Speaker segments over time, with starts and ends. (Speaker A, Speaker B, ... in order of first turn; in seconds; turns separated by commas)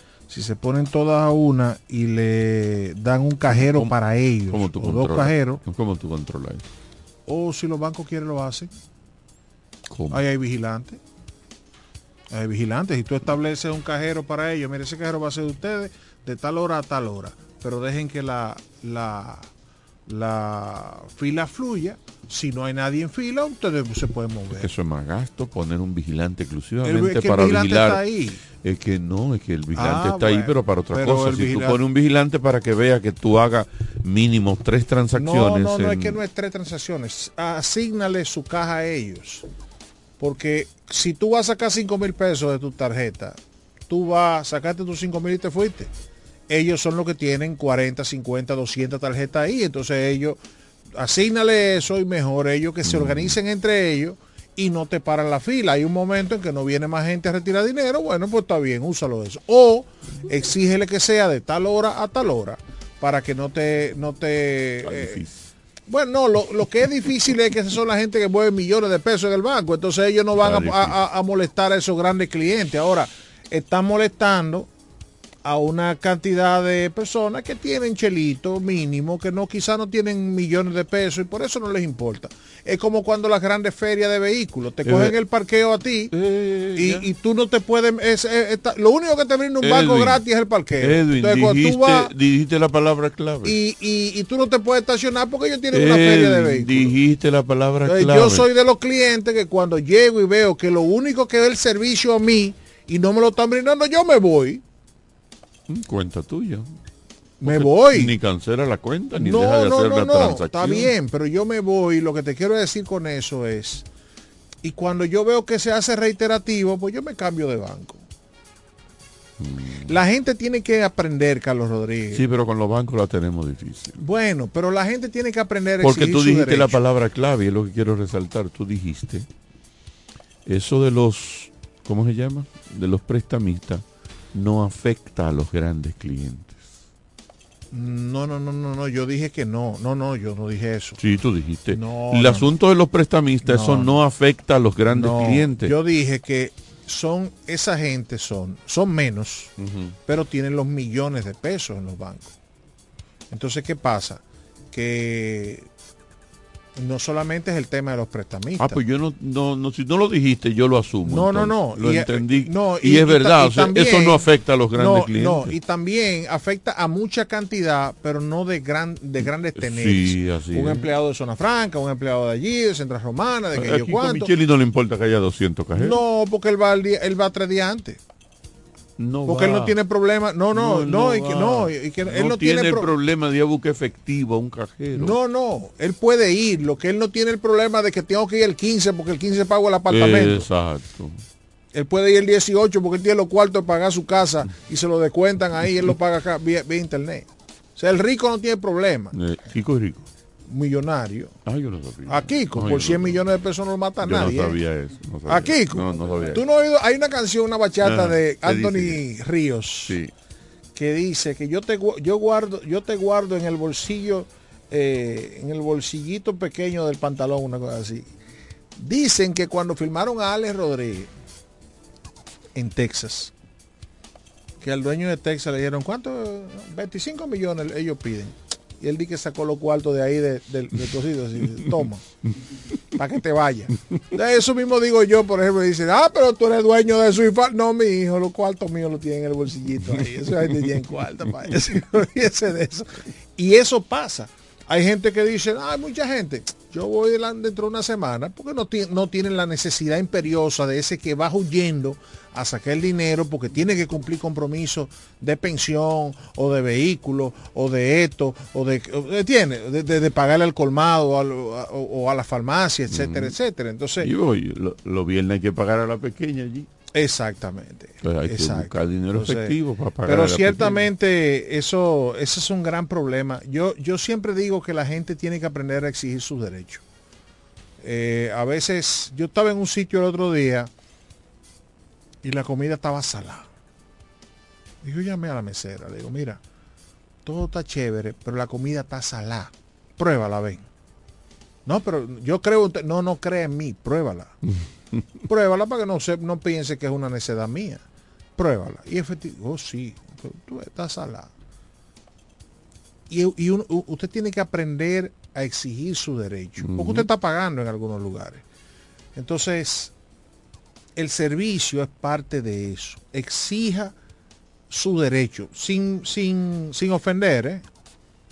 Speaker A: 0.3-5.6, Speaker B: 3.5-3.9, Speaker B: 4.5-6.7, Speaker A: 7.3-8.7, Speaker B: 9.9-10.2, Speaker A: 10.1-11.0, Speaker A: 12.3-19.5, Speaker A: 20.1-24.7, Speaker B: 24.5-28.0, Speaker A: 26.9-28.4, Speaker B: 28.6-36.2, Speaker A: 29.8-31.8, Speaker A: 35.2-39.5, Speaker A: 40.2-43.4, Speaker A: 43.9-45.9, Speaker A: 46.5-50.4, Speaker A: 50.9-65.2, Speaker B: 52.9-53.4, Speaker B: 64.8-65.4, Speaker A: 65.9-74.7, Speaker B: 70.4-71.0, Speaker A: 75.4-86.1, Speaker B: 84.8-85.2, Speaker B: 86.1-87.1, Speaker A: 86.8-92.1, Speaker B: 89.6-93.6, Speaker A: 93.5-97.0, Speaker B: 95.7-98.5, Speaker A: 97.8-104.6, Speaker B: 105.7-106.7, Speaker B: 107.4-110.9, Speaker A: 107.4-108.1, Speaker A: 109.1-113.9, Speaker A: 114.6-118.0, Speaker B: 119.4-119.9, Speaker A: 119.9-122.2, Speaker B: 122.1-124.0, Speaker A: 124.0-126.8, Speaker B: 125.8-129.3, Speaker B: 130.5-136.6, Speaker A: 137.7-141.0, Speaker B: 141.0-145.7, Speaker A: 141.7-142.5, Speaker A: 143.4-144.0, Speaker A: 144.9-149.5, Speaker B: 149.6-150.0, Speaker A: 150.1-152.3, Speaker A: 153.3-155.7, Speaker A: 156.8-158.8, Speaker B: 158.6-165.6, Speaker A: 161.1-164.2, Speaker A: 164.8-174.3, Speaker B: 169.6-170.9, Speaker B: 173.5-176.0, Speaker A: 175.8-178.0, Speaker B: 179.0-179.8, Speaker A: 179.3-182.9, Speaker B: 180.5-185.2, Speaker A: 185.0-190.5, Speaker B: 189.9-191.2, Speaker A: 191.7-199.2, Speaker B: 199.1-200.1, Speaker A: 200.5-201.3, Speaker B: 201.5-203.2, Speaker A: 202.1-204.6, Speaker B: 204.0-206.4, Speaker A: 205.3-210.0, Speaker B: 207.8-209.0, Speaker B: 209.8-210.1, Speaker A: 210.8-218.1, Speaker A: 218.8-221.1, Speaker A: 222.5-223.3, Speaker A: 224.6-232.0, Speaker A: 232.9-264.1, Speaker B: 262.9-263.4, Speaker B: 264.0-266.7, Speaker A: 266.9-269.5, Speaker B: 268.0-270.9, Speaker A: 270.1-276.8, Speaker A: 277.8-280.7, Speaker A: 282.2-283.5, Speaker A: 284.8-286.4, Speaker A: 287.2-290.7, Speaker A: 291.6-294.4, Speaker A: 295.3-297.8, Speaker A: 298.4-301.3, Speaker A: 303.1-308.4, Speaker B: 306.6-307.1, Speaker A: 309.1-309.9, Speaker A: 311.0-313.9, Speaker A: 314.7-317.6